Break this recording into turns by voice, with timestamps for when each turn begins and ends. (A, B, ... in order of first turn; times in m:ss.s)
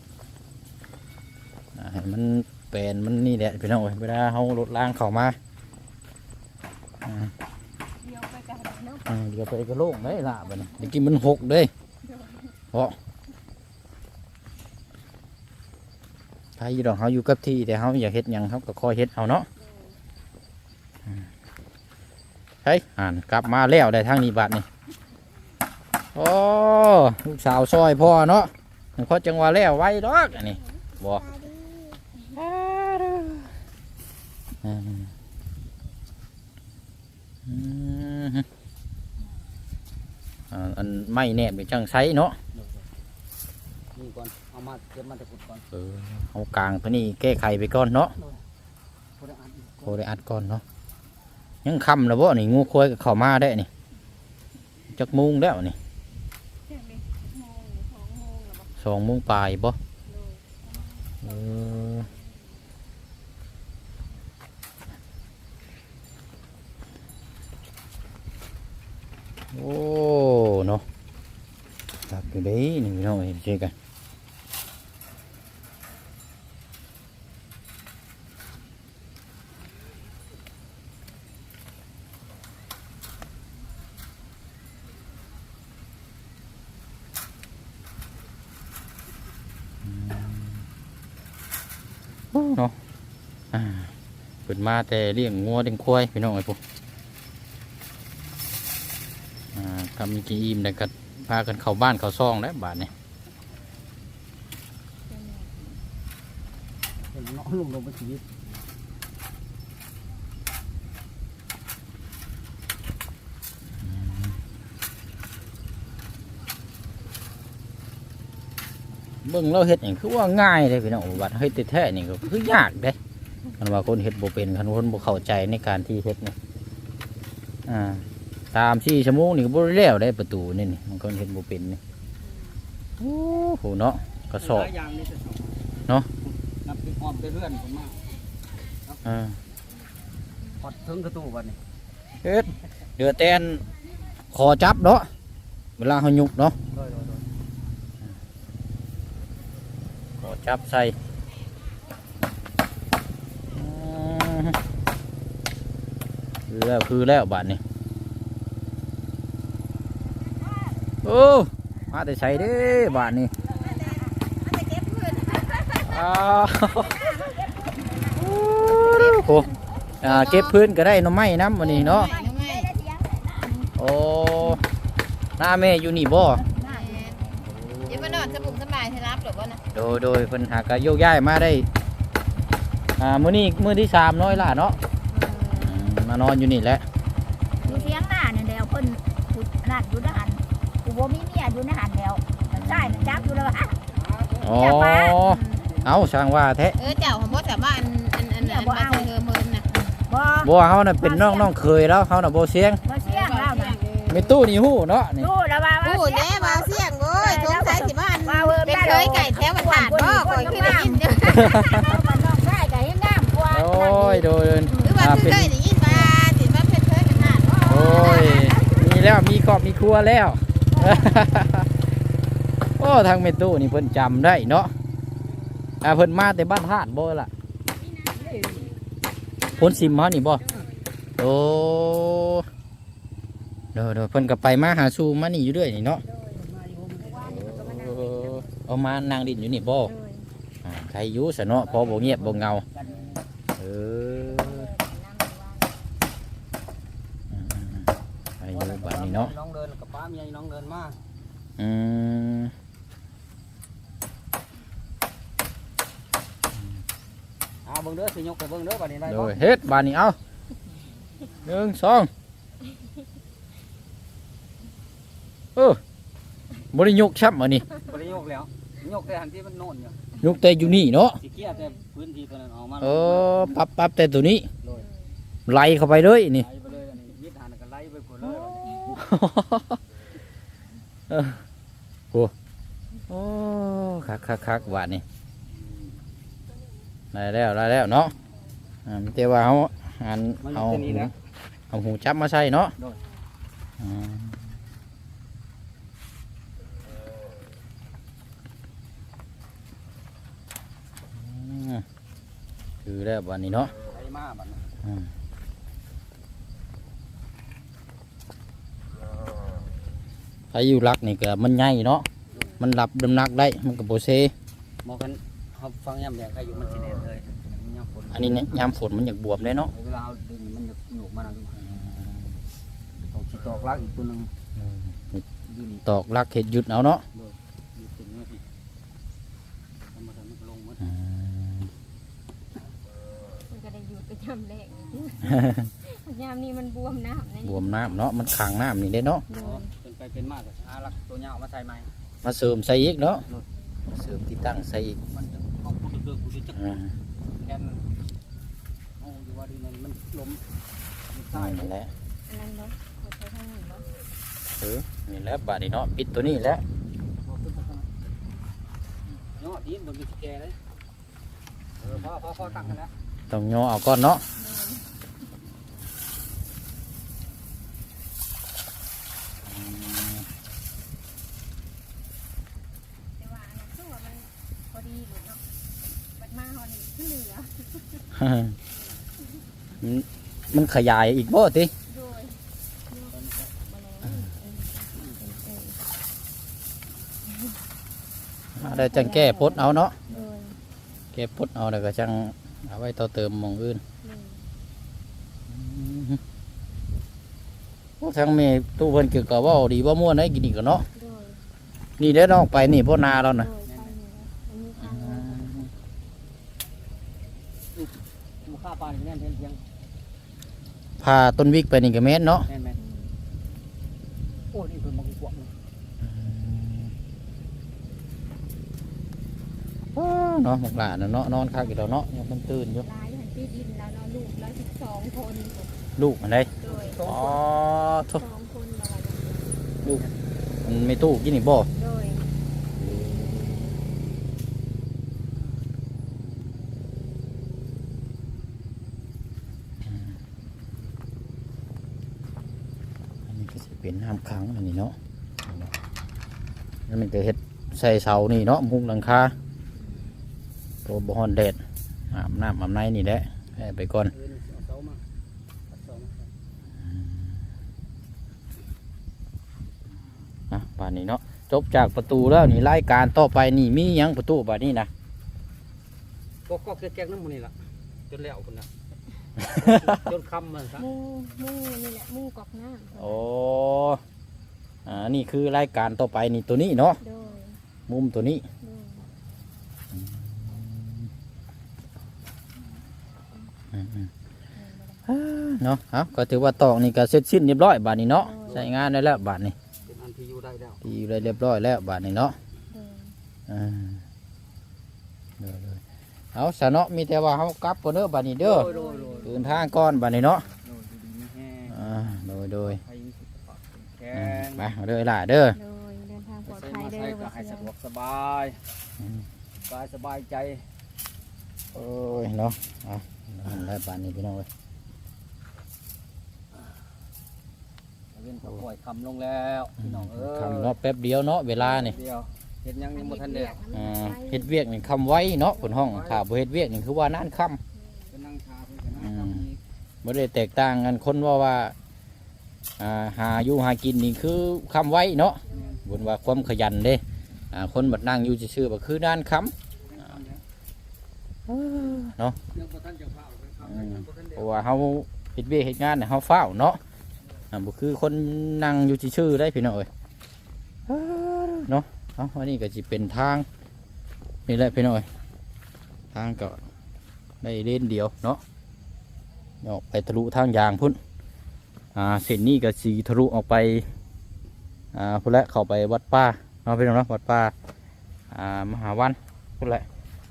0:01.8-0:05.4 A
0:07.0-0:07.3 A
0:08.0-0:09.1 B
0:09.1-0:11.7 A
0:10.0-0:11.0 B
0:12.0-0:12.6 B
0:16.6-0:19.5 A
0:19.6-0:20.0 B
0:22.6-0:24.6 A
0:26.2-0:31.4 A
0:30.4-0:32.0 B
0:32.3-0:33.5 A
0:34.6-0:35.1 A
0:37.5-0:38.5 A
0:40.5-0:42.4 A
0:42.5-0:42.8 C
0:44.0-0:45.7 C
0:45.7-0:48.2 A
0:49.2-0:50.0 C
0:49.9-0:50.6 A
0:51.6-0:53.7 A
0:54.9-0:55.8 A
0:56.7-0:58.7 B
0:58.8-0:59.8 A
1:00.1-1:02.4 B
1:01.2-1:02.1 A
1:09.5-1:10.8 A
1:12.1-1:13.7 A
1:29.8-1:30.6 A
1:32.3-1:32.8 A
1:33.5-1:33.9 A
1:34.5-1:36.6 A
1:39.6-1:42.9 A
1:45.1-1:45.8 B
1:47.1-1:48.2 C
1:53.8-1:54.3 A
1:59.2-2:03.0 A
2:03.6-2:06.4 A
2:07.7-2:11.8 A
2:13.0-2:14.7 A
2:14.4-2:15.6 C
2:16.4-2:18.0 C
2:19.0-2:19.4 A
2:20.6-2:21.6 C
2:22.2-2:23.6 A
2:24.3-2:25.1 A
2:25.8-2:26.6 A
2:26.7-2:27.3 C
2:30.2-2:31.0 A
2:33.5-2:34.6 A
2:36.5-2:37.6 A
2:41.0-2:43.3 A
2:43.5-2:46.0 D
2:45.8-2:47.2 A
2:46.8-2:49.5 B
2:47.0-2:47.3 E
2:48.1-2:49.5 A
2:48.8-2:49.4 D
2:50.0-2:50.6 D
2:50.0-2:52.1 A
2:51.6-2:52.7 D
2:51.8-2:53.7 E
2:53.8-2:54.6 A
2:55.4-2:56.4 A
2:56.4-2:57.4 E
2:56.6-2:57.2 D
2:56.7-2:57.4 B
2:57.6-2:58.2 A
2:57.8-2:59.6 D
2:59.7-3:01.7 A
3:03.0-3:04.8 A
3:05.1-3:05.8 B
3:05.5-3:06.8 A
3:07.6-3:08.1 B
3:07.6-3:13.8 E
3:12.5-3:13.6 A
3:13.9-3:14.8 C
3:14.4-3:16.8 A
3:14.6-3:15.4 E
3:15.2-3:15.6 D
3:15.5-3:16.1 C
3:16.8-3:19.7 D
3:18.4-3:19.1 E
3:20.0-3:21.5 E
3:20.4-3:22.8 A
3:22.8-3:23.9 E
3:23.1-3:24.0 B
3:24.1-3:25.3 A
3:25.2-3:32.4 E
3:25.8-3:32.0 D
3:30.4-3:31.0 B
3:31.2-3:31.9 A
3:31.7-3:34.8 B
3:33.5-3:34.2 E
3:33.5-3:35.6 A
3:34.8-3:38.6 D
3:37.2-3:38.8 B
3:37.6-3:41.8 A
3:40.7-3:41.5 B
3:42.8-3:44.7 A
3:45.8-3:47.3 A
3:47.8-3:48.8 B
3:48.2-3:48.7 C
3:49.4-3:50.9 B
3:49.5-3:50.4 A
3:51.2-3:52.5 A
3:53.8-3:56.0 A
3:56.1-3:56.4 B
3:56.3-3:57.4 C
3:57.0-3:58.6 B
3:57.2-3:59.9 A
3:59.8-4:00.3 B
4:00.6-4:02.7 A
4:01.6-4:03.2 C
4:03.6-4:04.7 A
4:04.2-4:05.8 B
4:07.3-4:09.3 A
4:08.5-4:11.0 C
4:11.6-4:12.5 A
4:17.6-4:19.5 C
4:19.1-4:20.2 A
4:21.4-4:22.1 A
4:26.7-4:27.7 A
4:27.8-4:30.2 C
4:30.2-4:31.2 A
4:31.2-4:33.5 C
4:31.5-4:31.8 B
4:32.8-4:34.5 A
4:34.6-4:34.9 C
4:34.8-4:35.1 B
4:35.5-4:36.5 A
4:36.3-4:39.0 C
4:38.5-4:39.0 B
4:38.8-4:39.8 A
4:41.1-4:41.4 A
4:43.1-4:45.0 A
4:47.1-4:48.1 A
4:48.9-4:51.1 A
4:50.4-4:51.1 C
4:51.7-4:52.8 A
4:53.8-4:54.5 A
5:01.1-5:01.8 A
5:02.8-5:03.7 A
5:03.9-5:04.6 C
5:04.8-5:05.1 A
5:10.5-5:12.1 A
5:12.6-5:14.3 A
5:14.8-5:18.7 C
5:18.1-5:19.7 A
5:19.7-5:21.6 C
5:21.6-5:22.4 A
5:23.0-5:24.3 C
5:24.6-5:25.2 A
5:25.5-5:25.9 C
5:25.8-5:27.0 A
5:27.1-5:28.4 C
5:29.9-5:30.9 C
5:30.8-5:31.7 A
5:33.5-5:38.0 B
5:35.2-5:35.7 A
5:37.4-5:39.3 A
5:39.3-5:39.7 B
5:39.3-5:41.9 C
5:42.2-5:43.2 A
5:43.9-5:45.0 A
5:45.1-5:46.8 C
5:46.6-5:46.9 A
5:47.4-5:47.9 C
5:49.0-5:50.4 C
5:51.1-5:51.7 C
5:51.3-5:51.9 A
5:52.3-5:53.9 B
5:54.6-5:56.6 A
5:57.2-5:57.9 C
5:59.4-6:00.6 C
6:01.8-6:02.9 C
6:03.3-6:04.2 A
6:04.4-6:04.9 B
6:09.4-6:10.3 A
6:13.2-6:15.4 B
6:16.2-6:18.1 B
6:18.1-6:18.6 A
6:19.8-6:21.7 A
6:21.9-6:25.8 B
6:23.1-6:23.5 C
6:28.6-6:30.0 A
6:28.6-6:30.6 B
6:31.1-6:33.8 A
6:34.0-6:34.5 B
6:35.5-6:36.2 A
6:38.0-6:40.9 A
6:40.9-6:41.4 B
6:42.0-6:43.5 A
6:43.3-6:45.5 B
6:43.6-6:43.9 C
6:44.8-6:45.7 A
6:47.8-6:49.6 C
6:51.0-6:52.5 A
6:52.5-6:52.8 C
6:52.8-6:53.1 B
6:54.5-6:55.5 C
6:56.0-6:56.9 A
7:00.0-7:02.9 A
7:02.8-7:05.7 B
7:06.0-7:08.2 A
7:06.6-7:07.4 C
7:06.6-7:07.2 B
7:08.1-7:09.6 B
7:10.6-7:11.7 A
7:11.8-7:12.3 B
7:12.8-7:13.8 A
7:19.9-7:20.2 A
7:23.3-7:25.7 A
7:26.9-7:29.4 A
7:30.9-7:31.6 A
7:32.1-7:34.1 A
7:34.1-7:35.0 C
7:35.7-7:36.3 C
7:36.8-7:37.4 A
7:40.5-7:44.9 A
7:46.5-7:47.6 C
7:48.1-7:48.7 C
7:49.4-7:50.9 C
7:49.6-7:49.8 A
7:50.8-7:53.2 B
7:53.0-7:54.0 A
7:54.9-7:57.0 A
7:57.0-7:57.6 B
7:57.9-7:58.5 A
7:58.6-7:59.1 B
7:59.9-8:01.1 A
8:03.7-8:04.1 A
8:04.6-8:05.0 B
8:05.1-8:09.5 A
8:08.1-8:08.7 B
8:09.9-8:10.8 C
8:10.8-8:12.4 A
8:12.7-8:13.2 B
8:13.5-8:14.0 A
8:15.4-8:15.8 A
8:16.3-8:18.7 A
8:18.4-8:19.5 C
8:18.6-8:19.7 B
8:19.2-8:20.5 A
8:20.6-8:24.7 C
8:21.7-8:22.8 A
8:24.1-8:25.6 A
8:25.5-8:27.7 B
8:26.5-8:28.6 C
8:29.0-8:29.2 A
8:29.6-8:30.6 C
8:31.7-8:34.5 A
8:38.1-8:40.8 C
8:39.8-8:42.0 A
8:41.6-8:42.1 B
8:41.8-8:43.6 C
8:42.9-8:44.5 B
8:43.7-8:47.6 A
8:45.6-8:46.2 C
8:47.7-8:48.1 B
8:48.1-8:49.6 C
8:49.0-8:49.5 A
8:50.0-8:51.8 A
8:52.8-8:59.5 A
8:55.4-8:55.9 B
8:59.8-9:00.4 C
9:01.5-9:02.4 A
9:02.5-9:04.6 C
9:03.6-9:06.8 A
9:07.5-9:09.9 A
9:10.9-9:13.5 A
9:14.5-9:15.1 A
9:16.1-9:16.6 A
9:17.4-9:18.4 A
9:19.6-9:21.0 A
9:22.0-9:23.9 A
9:24.9-9:27.5 A
9:28.3-9:29.9 A